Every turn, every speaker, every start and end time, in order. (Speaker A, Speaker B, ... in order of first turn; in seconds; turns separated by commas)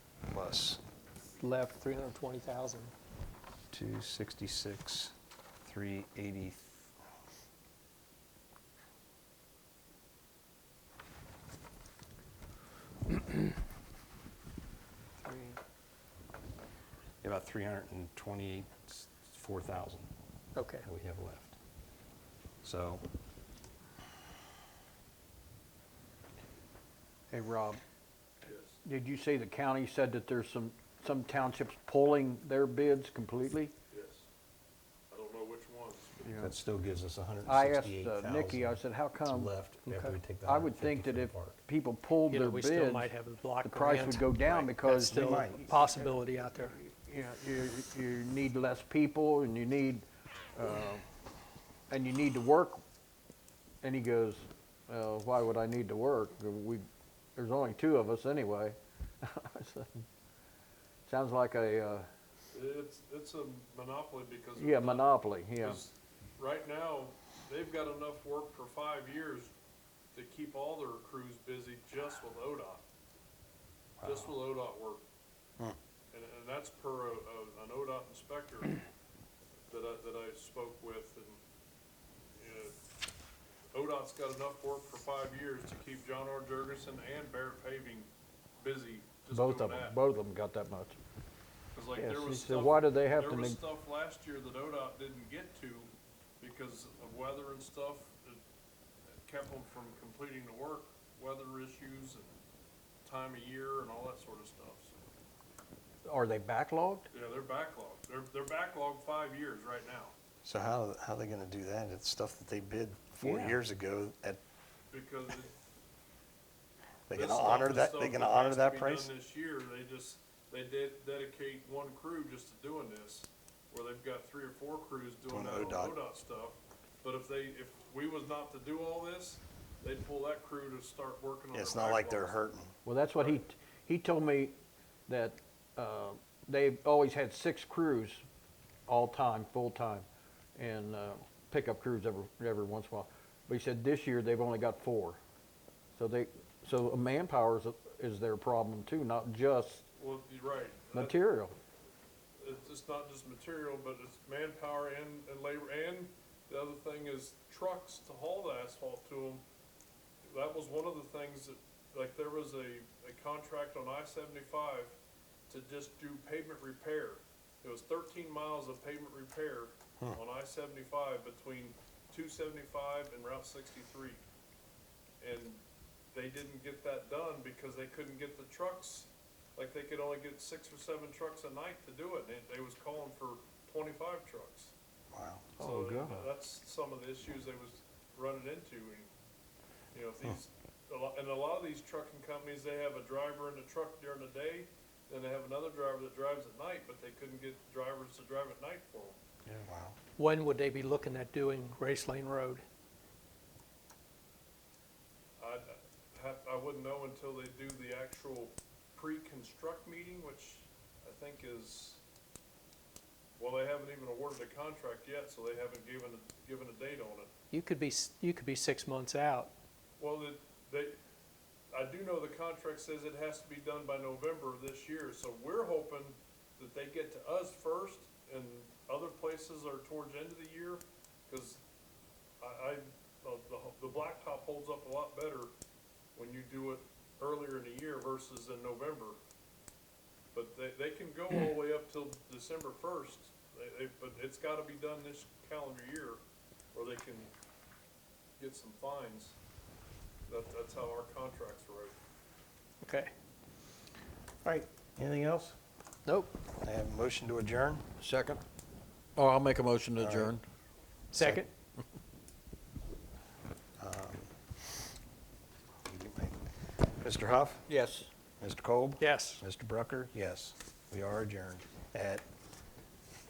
Speaker A: 0.3-0.8, Speaker B: 1.4-2.9, Speaker A: 3.7-5.1, Speaker A: 5.7-6.9, Speaker A: 17.2-20.1, Speaker B: 20.6-20.9, Speaker A: 20.8-21.6, Speaker A: 22.6-23.0, Speaker C: 27.3-27.8, Speaker D: 28.4-28.8, Speaker C: 28.9-33.7, Speaker D: 33.9-34.3, Speaker D: 35.1-36.2, Speaker C: 36.2-36.5, Speaker A: 36.4-41.6, Speaker C: 37.5-39.5, Speaker B: 39.9-40.1, Speaker C: 40.4-43.1, Speaker B: 42.3-46.8, Speaker C: 43.6-46.1, Speaker A: 44.9-45.7, Speaker C: 46.7-51.0, Speaker C: 51.9-52.8, Speaker C: 53.8-56.9, Speaker C: 57.4-59.9, Speaker C: 61.1-62.1, Speaker D: 62.5-69.5, Speaker C: 64.6-65.8, Speaker D: 70.1-72.8, Speaker A: 74.0-74.3, Speaker D: 74.0-75.0, Speaker D: 76.1-78.8, Speaker D: 79.7-81.4, Speaker D: 82.4-82.8, Speaker D: 83.7-90.0, Speaker C: 89.3-91.0, Speaker D: 91.7-98.4, Speaker C: 92.0-93.6, Speaker D: 99.2-102.3, Speaker D: 103.0-105.0, Speaker C: 106.0-107.1, Speaker D: 107.1-110.1, Speaker A: 110.4-114.4, Speaker C: 113.2-113.6, Speaker D: 114.9-115.5, Speaker A: 117.1-119.1, Speaker D: 117.1-132.4, Speaker A: 125.3-126.0, Speaker A: 131.5-132.7, Speaker C: 132.8-134.6, Speaker C: 135.1-138.2, Speaker C: 138.9-145.2, Speaker C: 146.0-149.9, Speaker D: 150.0-151.2, Speaker C: 150.9-151.5, Speaker D: 152.4-159.4, Speaker D: 160.3-165.0, Speaker D: 165.5-174.2, Speaker D: 175.2-175.6, Speaker D: 176.1-184.7, Speaker A: 185.1-185.5, Speaker C: 185.6-186.2, Speaker D: 185.6-189.1, Speaker D: 189.9-199.2, Speaker A: 199.5-200.0, Speaker B: 200.2-202.6, Speaker D: 205.4-212.0, Speaker D: 213.4-217.3, Speaker B: 217.5-219.5, Speaker D: 220.0-221.0, Speaker D: 221.7-231.6, Speaker D: 232.4-235.5, Speaker D: 236.2-239.2, Speaker D: 240.3-246.2, Speaker D: 246.7-247.3, Speaker D: 248.4-249.4, Speaker D: 250.3-252.0, Speaker B: 252.8-253.1, Speaker A: 254.4-255.6, Speaker B: 256.1-256.3, Speaker A: 256.6-257.8, Speaker C: 258.0-258.4, Speaker C: 259.2-260.4, Speaker A: 260.0-260.3, Speaker B: 261.1-261.5, Speaker A: 263.8-264.3, Speaker A: 265.9-267.7, Speaker C: 267.7-268.1, Speaker A: 268.4-272.2, Speaker B: 269.0-269.4